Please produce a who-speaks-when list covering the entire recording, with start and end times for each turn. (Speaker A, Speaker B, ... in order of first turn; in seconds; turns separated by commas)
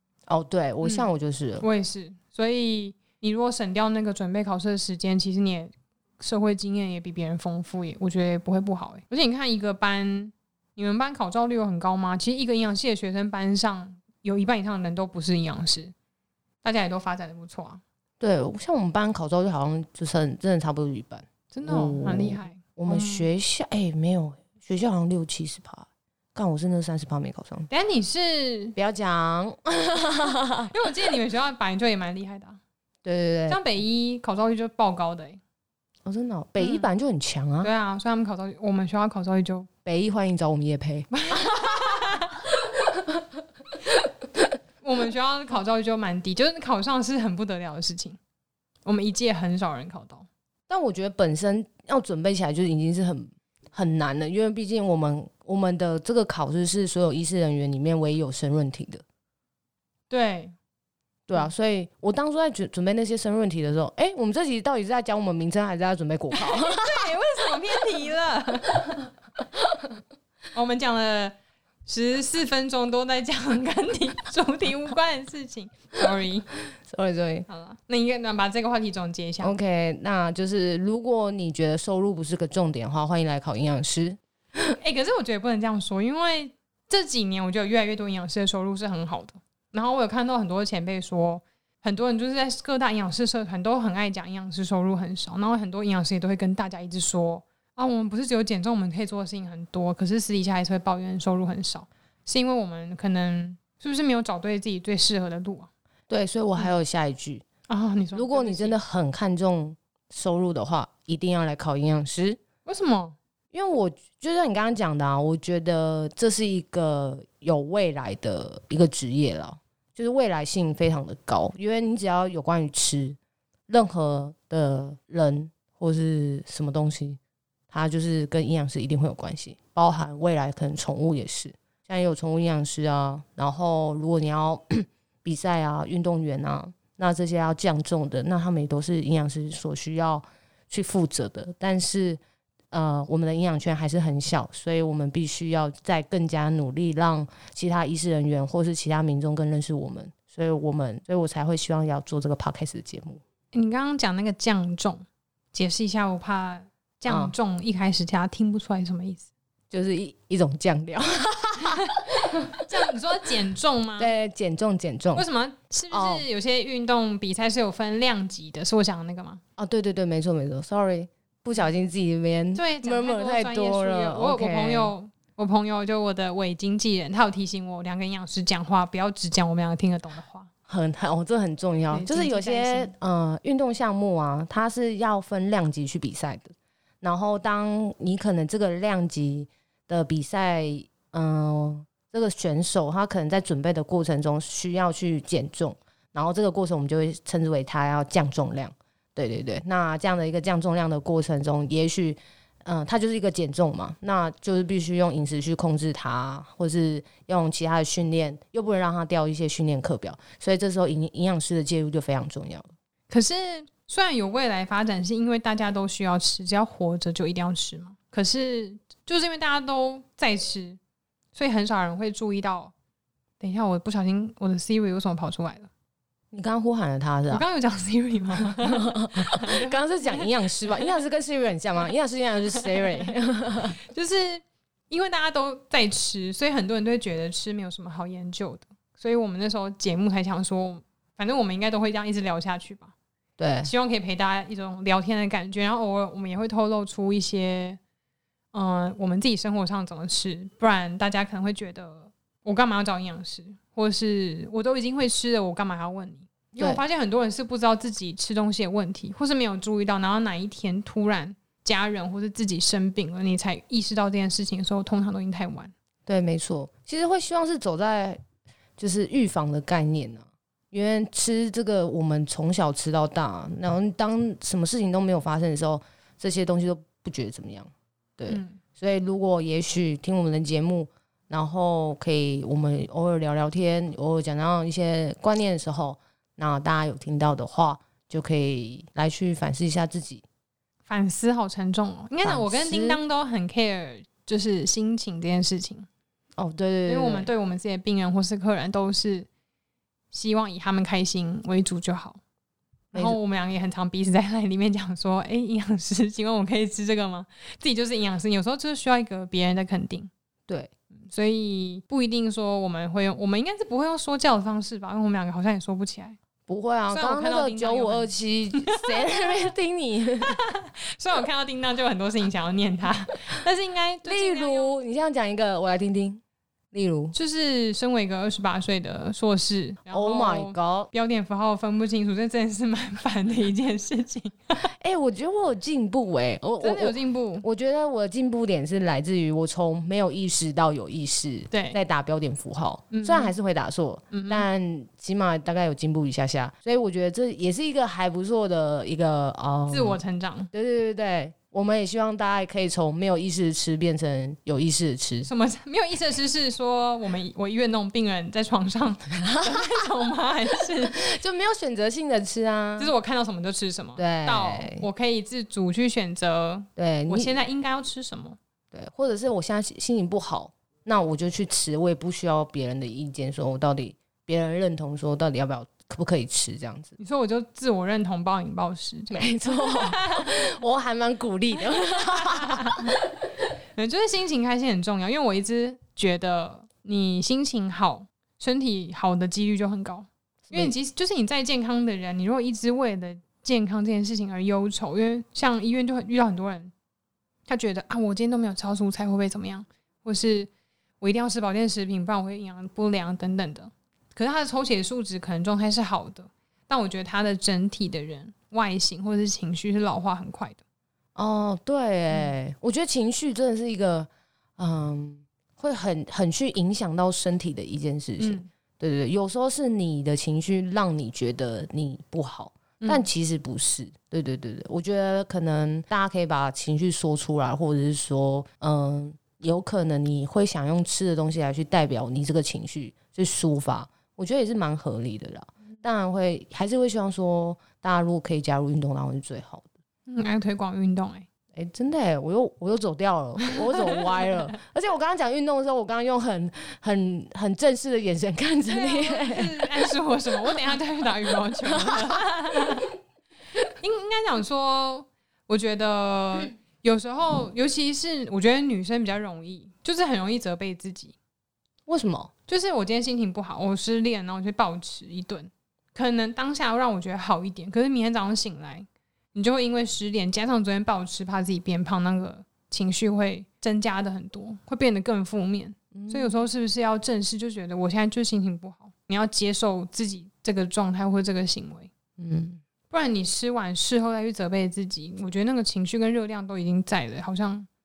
Speaker A: 0.3-1.6, Speaker B: 1.6-15.9, Speaker B: 16.6-17.8, Speaker A: 18.2-27.7, Speaker B: 21.5-23.3, Speaker B: 27.7-28.8, Speaker A: 28.7-30.7, Speaker B: 30.7-32.6, Speaker A: 33.0-33.6, Speaker B: 33.5-35.4, Speaker A: 36.0-37.7, Speaker B: 36.6-36.9, Speaker B: 37.6-39.7, Speaker A: 39.8-42.1, Speaker B: 41.1-42.5, Speaker B: 44.8-48.2, Speaker B: 48.8-50.3, Speaker A: 50.7-59.0, Speaker B: 60.1-60.5, Speaker A: 61.3-67.1, Speaker B: 66.3-69.1, Speaker B: 70.5-71.3, Speaker B: 71.8-76.5, Speaker A: 76.8-77.5, Speaker B: 77.5-79.5, Speaker A: 79.4-84.2, Speaker B: 84.8-105.7, Speaker A: 106.1-107.4, Speaker B: 107.7-108.8, Speaker A: 108.1-112.4, Speaker B: 112.6-113.2, Speaker A: 113.5-123.2, Speaker A: 123.7-127.2, Speaker A: 127.7-142.2, Speaker A: 142.7-153.2, Speaker B: 153.5-159.3, Speaker A: 157.1-157.3, Speaker A: 159.7-162.6, Speaker B: 162.6-164.1, Speaker A: 164.0-165.2, Speaker B: 165.1-169.4, Speaker A: 165.9-166.2, Speaker A: 169.6-174.9, Speaker B: 172.5-180.5, Speaker A: 180.7-212.7, Speaker B: 181.9-182.9, Speaker B: 213.1-220.8, Speaker B: 221.3-222.7, Speaker B: 223.4-225.7, Speaker A: 226.3-227.4, Speaker B: 227.3-230.3, Speaker A: 228.6-233.8, Speaker B: 232.6-233.1, Speaker B: 233.8-242.9, Speaker A: 243.4-243.7, Speaker B: 243.6-247.8, Speaker B: 248.5-265.7, Speaker A: 256.5-256.8, Speaker A: 266.1-268.2, Speaker A: 268.8-290.2, Speaker B: 278.3-278.6, Speaker B: 290.9-295.9, Speaker A: 292.2-293.0, Speaker A: 296.4-297.3, Speaker B: 296.9-299.3, Speaker B: 300.1-302.2, Speaker A: 302.9-303.2, Speaker B: 302.9-310.1, Speaker B: 311.1-316.2, Speaker A: 316.5-320.4, Speaker B: 316.9-318.1, Speaker B: 318.7-319.4, Speaker B: 320.3-324.7, Speaker A: 324.0-326.2, Speaker A: 326.7-327.1, Speaker B: 327.1-334.6, Speaker A: 329.9-330.9, Speaker A: 334.8-350.0, Speaker B: 336.6-337.4, Speaker B: 341.5-341.8, Speaker B: 342.9-343.3, Speaker B: 344.1-344.4, Speaker B: 349.7-350.5, Speaker A: 350.5-355.3, Speaker B: 355.2-361.1, Speaker A: 359.1-359.6, Speaker A: 360.9-362.9, Speaker B: 362.8-368.4, Speaker A: 364.0-364.9, Speaker A: 366.8-367.3, Speaker A: 368.7-376.9, Speaker B: 377.0-380.4, Speaker A: 379.1-382.9, Speaker B: 381.9-382.9, Speaker B: 383.8-396.7, Speaker B: 397.5-400.5, Speaker B: 401.0-410.6, Speaker A: 411.1-439.7, Speaker B: 418.2-418.5, Speaker B: 422.8-423.1, Speaker B: 440.1-441.3, Speaker A: 441.5-449.7, Speaker B: 443.7-444.4, Speaker B: 448.7-452.9, Speaker B: 453.8-461.1, Speaker A: 461.9-462.3, Speaker B: 462.5-481.9, Speaker A: 475.9-476.3, Speaker A: 482.2-482.6, Speaker B: 482.9-487.7